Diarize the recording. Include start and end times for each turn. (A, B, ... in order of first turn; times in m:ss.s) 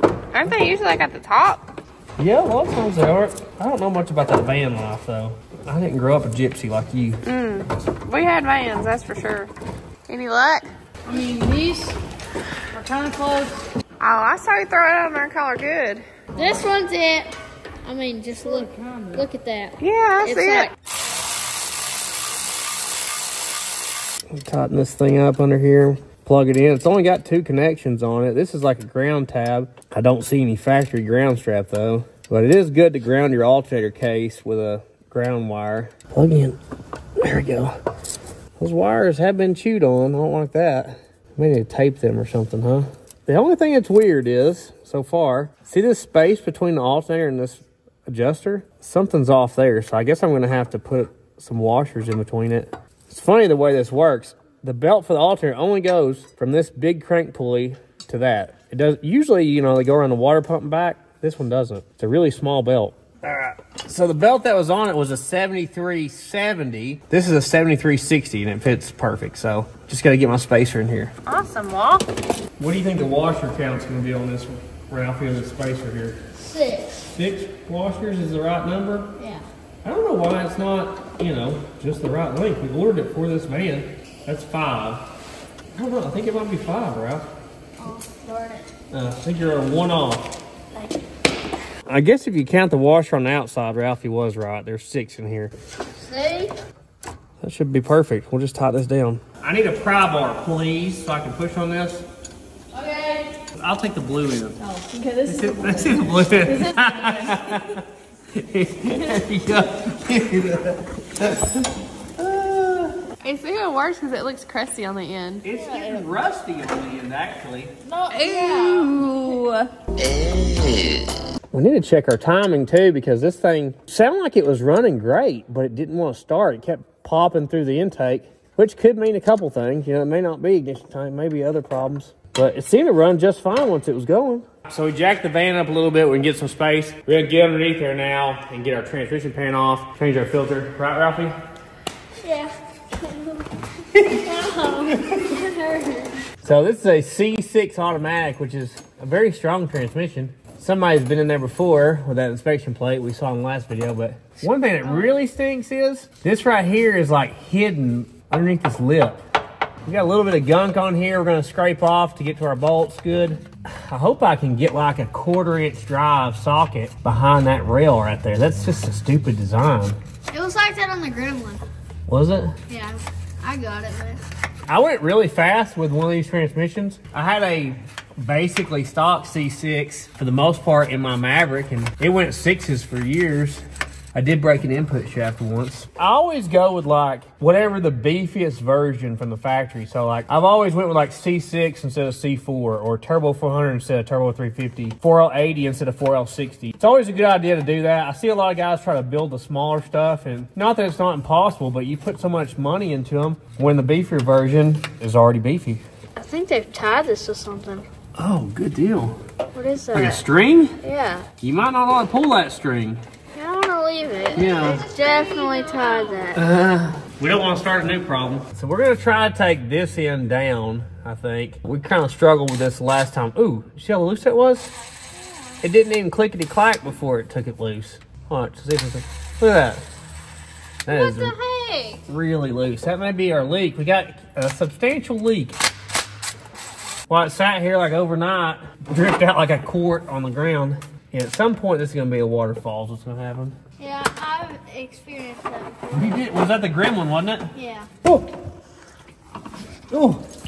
0:00.3-0:01.7 A
0:02.2-0:07.2 B
0:07.2-0:09.5 A
0:10.1-0:10.7 A
0:11.0-0:12.0 C
0:12.7-0:13.7 C
0:14.0-0:16.0 A
0:16.4-0:19.8 D
0:18.6-0:19.2 C
0:19.8-0:20.7 A
0:20.2-0:20.7 C
0:24.3-0:36.6 B
0:37.2-0:37.7 B
0:38.6-1:11.1 B
1:11.3-1:12.0 A
1:12.6-1:16.2 B
1:16.4-1:17.1 D
1:17.1-1:19.1 B
1:19.2-1:19.4 D
1:19.8-1:25.0 B
1:25.7-1:27.3 B
1:27.8-1:28.7 D
1:28.9-1:30.3 B
1:31.9-1:35.5 B
1:36.0-1:36.5 D
1:37.4-1:42.0 B
1:42.7-1:43.3 D
1:43.6-1:44.6 B
1:44.6-1:47.6 C
1:45.3-1:53.0 B
1:53.2-1:55.4 A
1:55.4-1:57.7 B
1:55.5-1:56.1 C
1:57.8-1:59.4 C
1:58.1-1:59.7 A
2:00.3-2:00.8 A
2:01.5-2:21.4 B
2:22.2-2:26.2 D
2:23.9-2:24.2 B
2:26.4-2:39.2 B
2:39.9-2:50.0 B
2:50.3-2:51.6 D
2:52.1-2:52.6 B
2:52.7-2:54.2 D
2:54.7-3:03.6 B
3:04.1-3:25.8 B
3:26.2-3:27.9 D
3:28.2-3:29.2 B
3:29.5-3:30.2 D
3:29.9-3:30.7 B
3:30.8-3:31.3 D
3:31.4-3:33.0 B
3:33.3-3:36.4 D
3:34.4-3:34.9 B
3:34.4-3:36.3 A
3:36.4-3:44.7 B
3:45.2-3:45.6 D
3:45.6-3:49.8 B
3:50.9-3:51.4 B
3:50.9-3:52.0 D
3:52.0-3:55.6 B
3:57.1-4:03.6 B
4:03.8-4:06.3 D
4:05.9-4:07.5 B
4:07.5-4:07.9 D
4:08.0-4:08.4 B
4:09.9-4:10.2 B